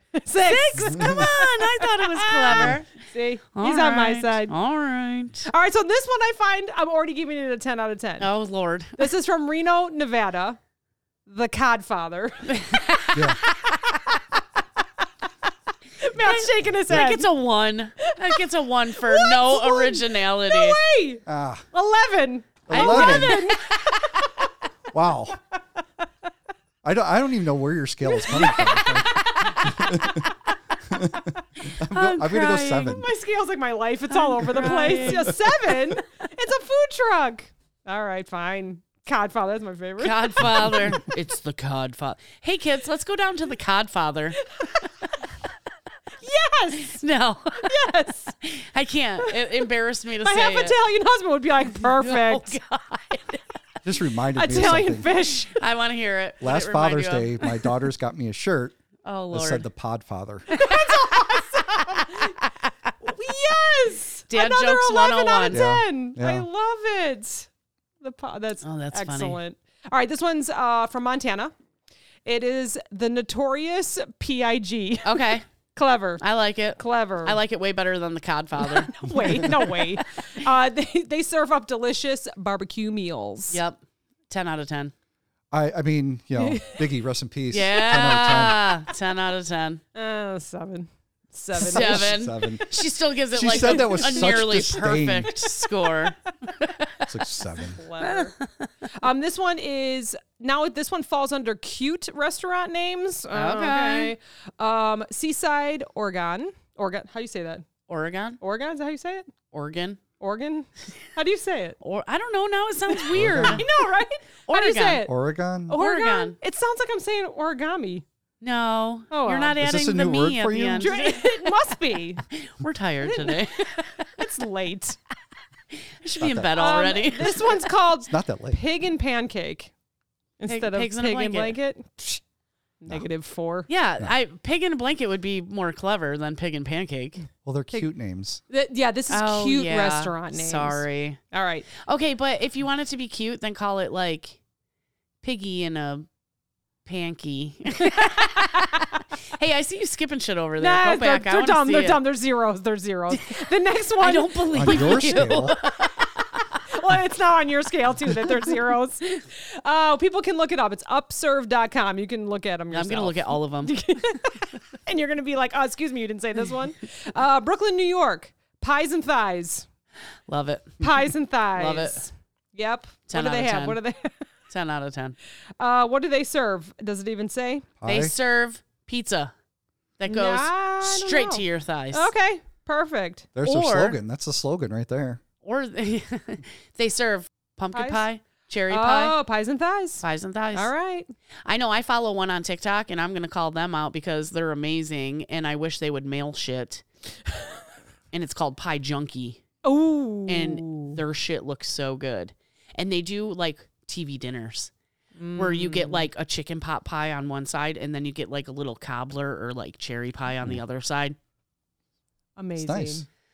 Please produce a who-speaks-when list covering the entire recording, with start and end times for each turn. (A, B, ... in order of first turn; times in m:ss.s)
0:00.1-0:04.5 A
0:00.4-0:03.0 B
0:00.9-0:01.3 C
0:03.5-0:05.5 B
0:05.4-0:08.3 A
0:08.2-0:09.1 B
0:09.0-0:10.6 A
0:11.3-0:14.2 A
0:12.5-0:13.3 B
0:13.1-0:13.4 C
0:16.0-0:17.3 A
0:16.1-0:20.8 B
0:18.0-0:18.4 A
0:19.0-0:24.3 A
0:21.2-0:21.6 C
0:22.7-0:23.5 C
0:22.7-0:23.5 B
0:24.9-0:25.4 C
0:26.8-0:30.2 C
0:28.1-0:30.3 A
0:30.9-0:33.1 C
0:31.7-0:33.0 B
0:32.8-0:41.0 A
0:34.2-0:35.4 B
0:35.0-0:35.3 C
0:40.0-0:44.4 B
0:44.6-0:44.8 A
0:46.2-0:47.0 A
0:46.9-0:47.8 B
0:47.6-0:48.4 A
0:48.4-0:50.8 B
0:49.2-0:49.7 A
0:50.2-0:52.6 A
0:51.8-0:53.4 B
0:53.8-0:55.1 C
0:54.4-0:55.6 A
0:55.5-0:57.7 B
0:56.4-0:58.7 C
0:59.0-0:59.6 B
0:59.3-1:00.5 C
1:00.5-1:02.4 A
1:00.5-1:01.4 B
1:02.2-1:02.5 B
1:03.0-1:07.5 A
1:04.3-1:05.6 B
1:05.5-1:06.4 C
1:08.0-1:11.5 A
1:08.6-1:09.4 B
1:12.2-1:16.2 A
1:15.0-1:15.4 B
1:16.2-1:19.9 B
1:16.8-1:17.4 A
1:18.6-1:23.6 A
1:23.5-1:24.9 B
1:25.5-1:28.7 C
1:26.4-1:26.8 A
1:27.5-1:29.8 B
1:29.9-1:32.7 A
1:31.5-1:32.6 C
1:31.6-1:37.1 B
1:33.3-1:35.3 C
1:33.5-1:34.6 A
1:35.4-1:36.1 A
1:37.1-1:37.8 C
1:37.6-1:38.3 A
1:38.0-1:38.7 B
1:38.9-1:47.6 A
1:43.3-1:44.1 B
1:47.9-1:48.4 B
1:48.4-1:49.3 A
1:49.5-1:50.0 B
1:50.2-1:51.8 A
1:51.8-1:53.7 B
1:53.1-1:53.6 C
1:53.5-1:55.1 A
1:54.5-1:55.1 B
1:55.1-1:55.8 C
1:55.7-1:58.0 A
1:55.7-1:56.4 B
1:58.4-2:01.6 B
1:59.1-1:59.6 A
1:59.6-2:00.9 C
2:00.8-2:02.2 A
2:02.3-2:03.7 B
2:03.0-2:05.0 A
2:06.0-2:07.4 B
2:06.2-2:06.6 C
2:06.5-2:09.7 A
2:08.1-2:08.6 C
2:10.4-2:12.2 A
2:10.5-2:11.5 B
2:12.8-2:13.7 A
2:13.7-2:17.2 B
2:17.4-2:18.4 C
2:18.5-2:21.7 A
2:19.1-2:21.2 B
2:21.7-2:24.4 B
2:25.2-2:26.1 B
2:26.8-2:28.8 B
2:27.8-2:29.0 A
2:29.3-2:32.0 B
2:30.6-2:35.4 A
2:33.1-2:33.4 B
2:34.0-2:36.4 B
2:34.5-2:35.5 C
2:36.7-2:49.7 A
2:42.7-2:43.8 B
2:50.3-2:50.8 B
2:50.8-2:54.3 A
2:51.6-2:52.0 B
2:53.1-2:53.8 B
2:54.5-2:55.2 B
2:55.6-2:57.7 A
2:57.8-2:58.1 C
2:57.9-2:59.3 B
3:00.0-3:02.1 B
3:00.1-3:03.3 A
3:03.4-3:05.2 C
3:03.4-3:04.0 B
3:05.4-3:09.2 B
3:07.7-3:08.0 A
3:08.7-3:11.1 A
3:10.0-3:10.7 B
3:11.4-3:16.8 B
3:18.1-3:19.4 B
3:19.6-3:21.0 A
3:20.3-3:24.7 B
3:25.2-3:26.1 A
3:25.4-3:31.2 B
3:32.4-3:33.0 A
3:32.6-3:33.0 C